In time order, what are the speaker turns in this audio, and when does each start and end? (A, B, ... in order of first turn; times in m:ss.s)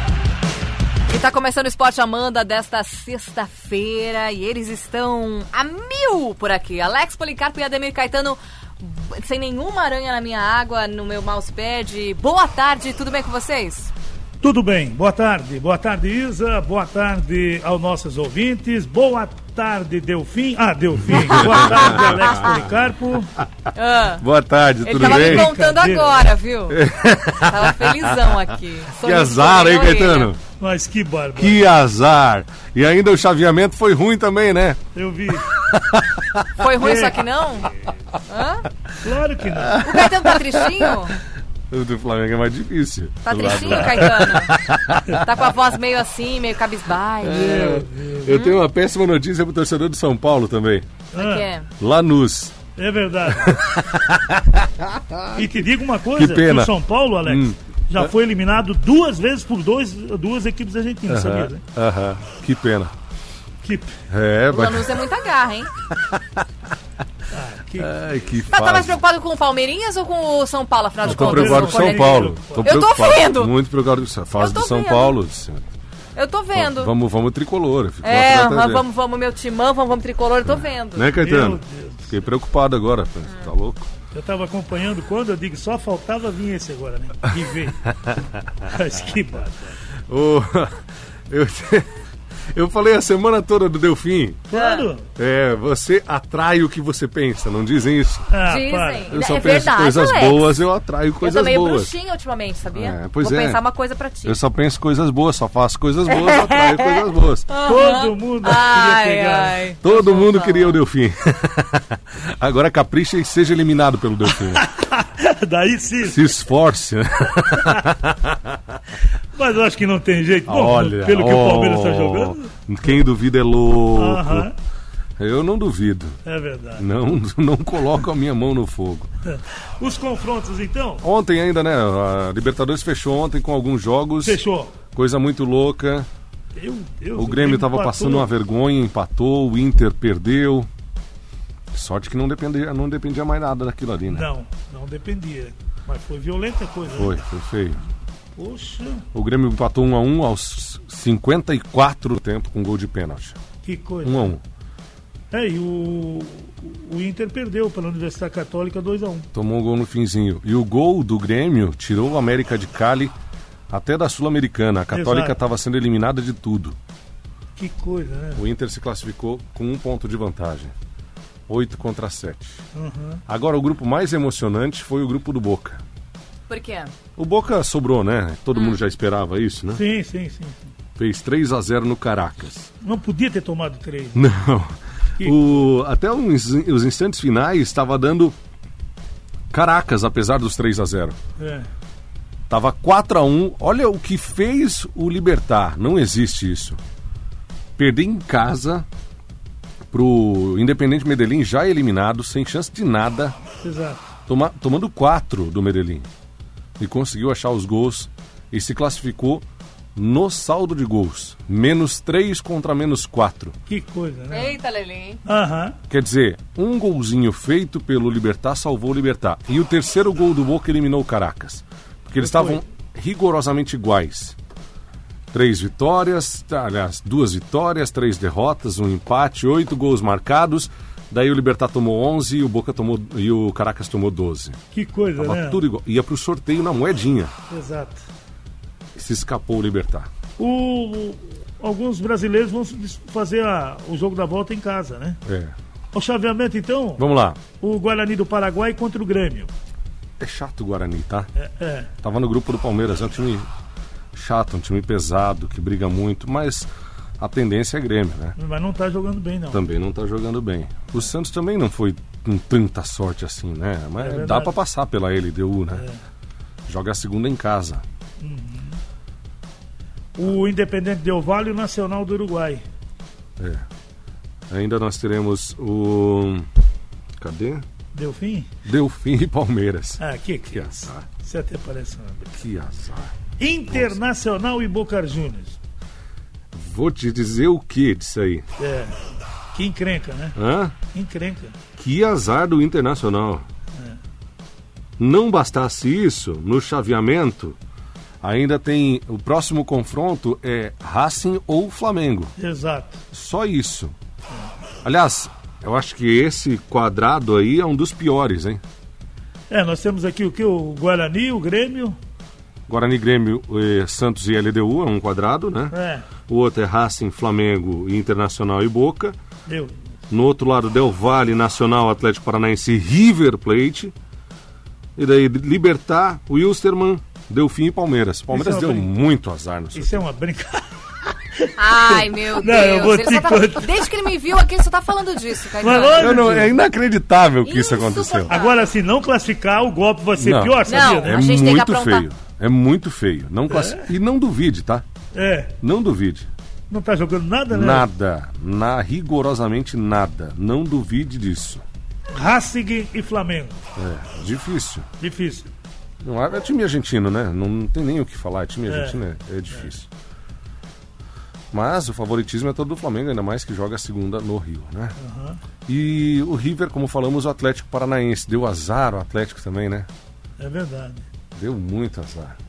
0:01.1-0:13.9 A
0:14.4-0:23.3 B
0:21.1-0:22.8 C
0:21.3-0:22.6 A
0:23.7-0:24.2 A
0:24.2-0:25.5 C
0:24.8-0:26.8 A
0:25.0-0:26.3 B
0:26.7-0:28.4 C
0:27.4-0:30.3 A
0:29.0-0:30.4 C
0:30.6-0:31.6 B
0:31.4-0:34.8 C
0:34.9-0:35.5 B
0:35.4-0:36.4 C
0:36.6-0:37.7 A
0:36.8-0:37.2 B
0:38.3-0:38.6 A
0:39.0-0:39.8 B
0:39.4-0:41.0 C
0:39.8-0:41.2 A
0:41.7-0:45.3 C
0:43.2-0:47.5 A
0:47.2-0:50.9 C
0:47.3-0:48.4 B
0:48.3-0:48.6 A
0:51.1-0:51.5 B
0:51.1-0:51.7 A
0:51.8-0:52.5 C
0:52.8-0:53.6 B
0:53.3-0:58.1 C
0:55.3-1:01.6 B
1:01.1-1:02.9 C
1:03.6-1:04.0 B
1:04.1-1:05.0 C
1:04.5-1:05.7 A
1:05.9-1:06.4 C
1:07.3-1:08.5 B
1:07.8-1:09.0 C
1:08.5-1:13.5 A
1:11.0-1:12.8 B
1:11.1-1:15.7 C
1:14.3-1:15.2 A
1:16.1-1:16.9 A
1:16.5-1:18.8 C
1:18.0-1:21.1 A
1:20.4-1:23.9 C
1:21.1-1:22.2 B
1:23.3-1:23.5 A
1:24.1-1:27.9 B
1:28.6-1:29.7 B
1:30.1-1:31.9 C
1:32.5-1:34.5 C
1:34.5-1:35.1 B
1:34.5-1:34.9 A
1:35.1-1:38.3 C
1:38.3-1:39.2 B
1:38.4-1:40.6 A
1:39.1-1:41.9 C
1:41.2-1:44.4 A
1:42.7-1:43.6 C
1:44.2-1:47.5 C
1:46.1-1:50.8 A
1:47.6-1:49.6 B
1:49.8-1:54.7 C
1:54.5-1:56.3 B
1:56.0-1:58.6 C
1:57.5-1:57.9 B
1:59.3-2:03.0 B
2:00.4-2:04.5 C
2:03.9-2:04.5 B
2:05.2-2:06.2 C
2:06.2-2:06.9 B
2:06.8-2:09.1 C
2:09.2-2:11.0 B
2:11.0-2:16.1 C
2:14.2-2:14.8 B
2:16.6-2:18.3 B
2:17.2-2:20.7 C
2:21.7-2:24.3 C
2:24.1-2:27.2 B
2:26.9-2:27.8 C
2:28.3-2:29.0 B
2:29.1-2:33.4 C
2:33.6-2:34.3 B
2:34.0-2:34.4 C
2:35.3-2:39.3 B
2:39.3-2:43.2 C
2:43.7-2:46.8 C
2:44.9-2:45.4 B
2:47.6-2:48.4 B
2:48.4-2:50.7 C
2:51.5-2:52.6 C
2:52.7-2:53.2 B
2:53.3-2:55.8 C
2:56.5-2:56.9 A
2:57.2-2:59.8 C
2:58.5-2:58.8 A
2:59.7-3:00.6 B
3:01.0-3:02.7 C
3:02.8-3:04.3 B
3:04.2-3:08.3 C
3:05.2-3:05.5 B
3:09.5-3:11.2 C
3:11.4-3:11.7 B
3:12.5-3:16.8 C
3:17.8-3:18.9 C
3:19.9-3:23.4 C
3:23.6-3:24.1 B
3:24.3-3:26.1 C
3:26.8-3:29.4 C
3:30.0-3:33.6 C
3:33.7-3:34.6 B
3:34.3-3:35.2 A
3:35.2-3:35.8 B
3:35.9-3:44.4 C
3:42.2-3:42.6 B
3:45.3-3:54.6 C
3:54.7-3:55.6 B
3:55.2-3:57.3 C
3:57.5-3:58.0 B
3:59.0-4:00.1 C
4:00.4-4:05.2 B
4:05.3-4:05.6 C
4:05.9-4:07.0 B
4:07.0-4:07.4 C
4:07.6-4:09.5 B
4:10.2-4:11.3 C
4:11.4-4:11.9 B
4:12.0-4:13.5 C
4:14.1-4:18.4 C
4:18.4-4:19.6 B
4:19.5-4:25.9 C
4:24.0-4:24.6 B
4:25.7-4:26.0 B
4:26.7-4:27.8 C
4:28.2-4:28.8 B
4:30.2-4:32.6 B
4:33.4-4:33.6 C
4:34.5-4:36.5 C
4:37.2-4:37.6 C
4:37.9-4:38.5 B
4:38.6-4:41.0 C
4:40.0-4:42.4 B
4:42.4-4:43.2 C
4:43.4-4:45.6 B
4:43.7-4:43.9 C
4:46.5-4:48.4 C
4:48.6-4:49.0 B
4:49.5-4:51.6 B
4:50.4-4:50.7 C
4:51.8-4:53.4 C
4:55.0-4:57.6 C
4:58.2-5:02.3 C
5:02.4-5:03.0 B
5:03.1-5:03.9 C
5:04.8-5:08.6 C
5:09.5-5:12.0 B
5:12.7-5:15.8 C
5:15.7-5:16.1 B
5:16.3-5:19.2 C
5:19.5-5:19.8 B
5:20.1-5:23.9 C
5:25.0-5:30.0 C
5:28.3-5:28.9 B
5:29.7-5:33.8 B
5:31.6-5:36.2 A
5:35.6-5:36.6 B
5:35.9-5:38.4 C
5:37.4-5:38.7 A
5:38.3-5:41.3 B
5:40.2-5:44.8 C
5:40.7-5:42.1 A
5:43.5-5:43.9 B
5:45.1-5:45.5 B
5:45.6-5:46.3 C
5:46.7-5:47.9 B
5:47.5-5:51.6 C
5:52.1-5:53.6 B
5:53.8-5:54.9 C
5:55.0-5:55.5 B
5:56.0-5:59.9 C
5:58.7-5:59.0 B
6:01.5-6:04.9 C
6:05.0-6:05.4 B
6:05.7-6:09.9 C
6:10.4-6:11.1 B
6:11.4-6:12.4 C